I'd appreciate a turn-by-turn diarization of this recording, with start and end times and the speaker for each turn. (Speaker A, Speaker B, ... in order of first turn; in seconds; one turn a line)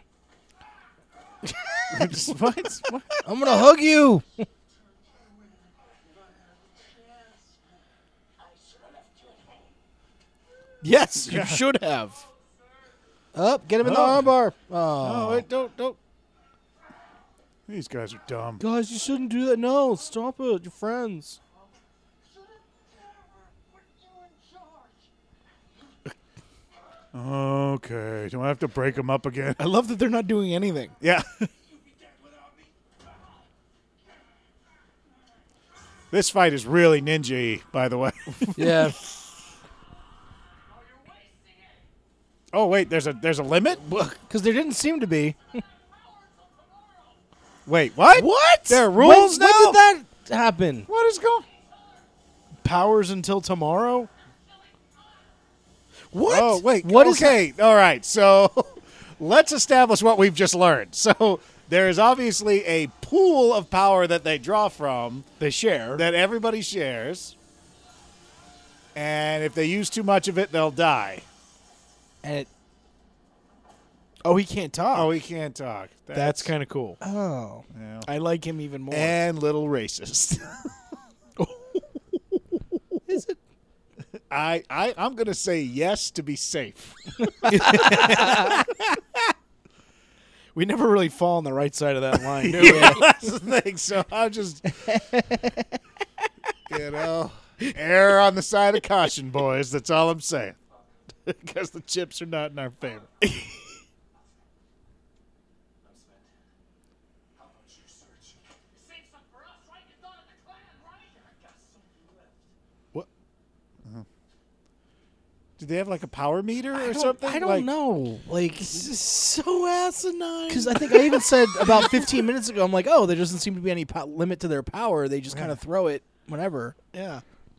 Speaker A: 1.9-3.2
Speaker B: 3.2-4.4
Speaker C: 10.8-12.2
Speaker A: 11.3-11.6
Speaker B: 13.3-15.4
Speaker A: 13.9-14.3
Speaker A: 15.0-16.0
Speaker A: 17.7-18.6
Speaker B: 18.6-21.4
Speaker A: 27.1-29.6
Speaker C: 29.6-30.9
Speaker A: 31.0-31.5
Speaker A: 36.1-38.8
Speaker B: 38.5-39.0
Speaker D: 40.9-41.8
Speaker A: 42.5-43.9
Speaker B: 44.1-45.4
Speaker A: 47.6-49.8
Speaker C: 48.1-48.8
Speaker B: 48.9-50.9
Speaker A: 50.9-51.5
Speaker C: 52.6-54.1
Speaker C: 56.1-56.6
Speaker A: 56.3-65.3
Speaker B: 56.8-57.4
Speaker C: 65.4-66.0
Speaker A: 66.0-67.3
Speaker A: 68.9-71.2
Speaker B: 72.2-72.5
Speaker C: 74.2-75.1
Speaker A: 74.9-76.5
Speaker C: 76.1-77.0
Speaker B: 77.0-77.7
Speaker A: 77.7-78.1
Speaker C: 78.0-79.2
Speaker A: 78.9-80.6
Speaker C: 81.4-82.4
Speaker B: 83.1-83.4
Speaker A: 84.3-89.0
Speaker C: 87.5-88.5
Speaker B: 87.5-88.6
Speaker C: 90.5-93.1
Speaker A: 92.4-95.0
Speaker B: 92.6-93.0
Speaker B: 94.8-95.7
Speaker A: 96.7-100.6
Speaker A: 101.3-103.1
Speaker C: 103.2-103.6
Speaker D: 105.9-106.3
Speaker D: 107.6-108.4
Speaker D: 109.0-112.0
Speaker A: 115.6-117.7
Speaker B: 116.7-118.9
Speaker C: 118.5-122.1
Speaker B: 120.5-126.7
Speaker A: 125.3-125.6
Speaker C: 126.9-127.2